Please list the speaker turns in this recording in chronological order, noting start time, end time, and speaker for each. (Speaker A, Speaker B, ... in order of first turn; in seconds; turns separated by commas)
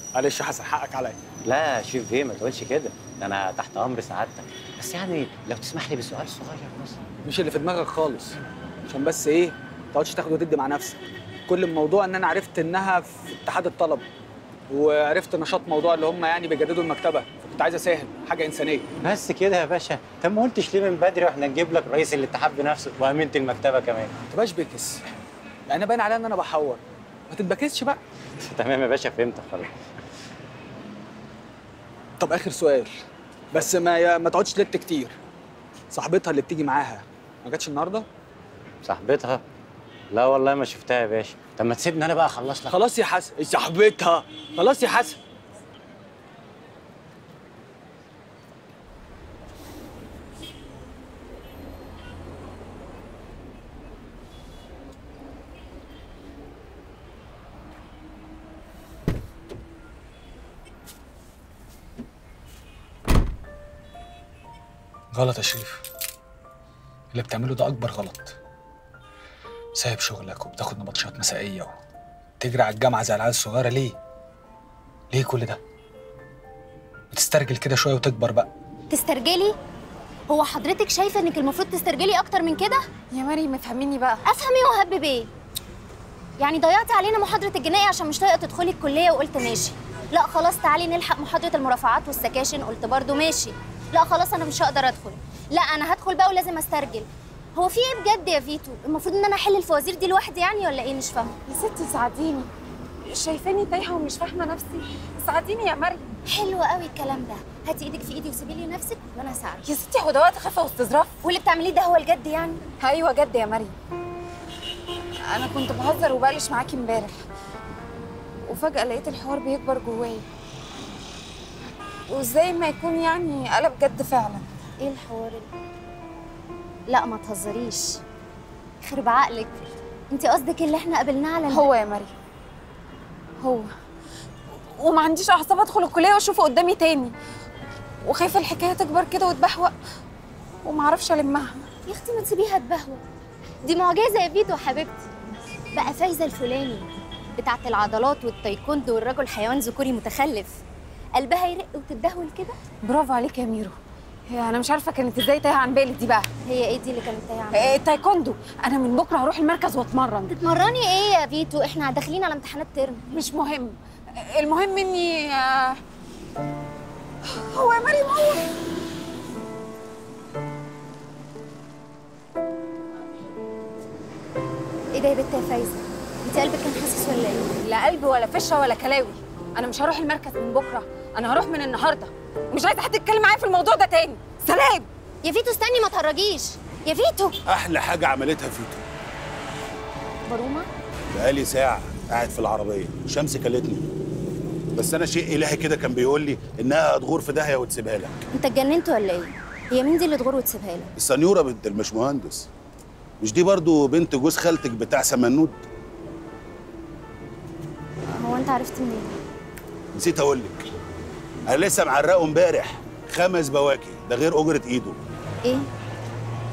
Speaker A: 0.1-1.2, Speaker B: 1.4-7.0, Speaker A: 7.2-14.0, Speaker A: 14.7-18.9, Speaker B: 19.0-24.1, Speaker A: 24.3-25.0, Speaker A: 25.7-28.0, Speaker B: 28.4-29.7, Speaker A: 32.2-32.9, Speaker A: 33.5-35.1, Speaker A: 35.9-38.0, Speaker B: 38.8-39.4, Speaker B: 40.1-42.8, Speaker A: 42.7-45.2, Speaker A: 65.1-65.8, Speaker A: 67.1-68.4, Speaker A: 69.8-71.7, Speaker A: 72.4-74.0, Speaker A: 75.1-75.6, Speaker A: 77.1-78.5, Speaker C: 78.9-79.5, Speaker C: 80.3-82.8, Speaker D: 83.1-84.2, Speaker C: 84.2-85.3, Speaker C: 86.4-101.4, Speaker D: 101.5-102.5, Speaker D: 103.0-106.2, Speaker C: 106.3-109.7, Speaker D: 109.6-111.2, Speaker C: 111.2-112.7, Speaker D: 112.8-113.7, Speaker D: 115.3-117.2, Speaker D: 118.4-120.2, Speaker D: 122.1-124.5, Speaker C: 124.8-125.5, Speaker C: 126.9-128.0, Speaker C: 128.8-131.7, Speaker D: 131.5-132.1, Speaker D: 133.4-133.7, Speaker D: 134.8-137.1, Speaker D: 138.0-139.7, Speaker D: 140.6-141.7, Speaker C: 141.8-143.0, Speaker C: 143.6-145.1, Speaker C: 145.7-150.6, Speaker C: 151.2-152.6, Speaker D: 152.8-153.8, Speaker D: 154.3-156.3, Speaker C: 156.4-157.8, Speaker D: 157.5-160.3, Speaker C: 160.3-163.1, Speaker D: 163.1-165.8, Speaker D: 167.2-168.5, Speaker C: 174.9-177.6, Speaker D: 177.6-184.9, Speaker C: 185.2-187.4, Speaker E: 187.4-188.8, Speaker C: 190.3-190.7, Speaker E: 191.1-193.9, Speaker E: 194.7-198.2, Speaker C: 198.3-200.9, Speaker E: 201.0-202.5, Speaker E: 203.2-205.6, Speaker C: 208.2-209.2, Speaker E: 209.9-210.6, Speaker E: 211.5-215.0, Speaker C: 215.4-215.7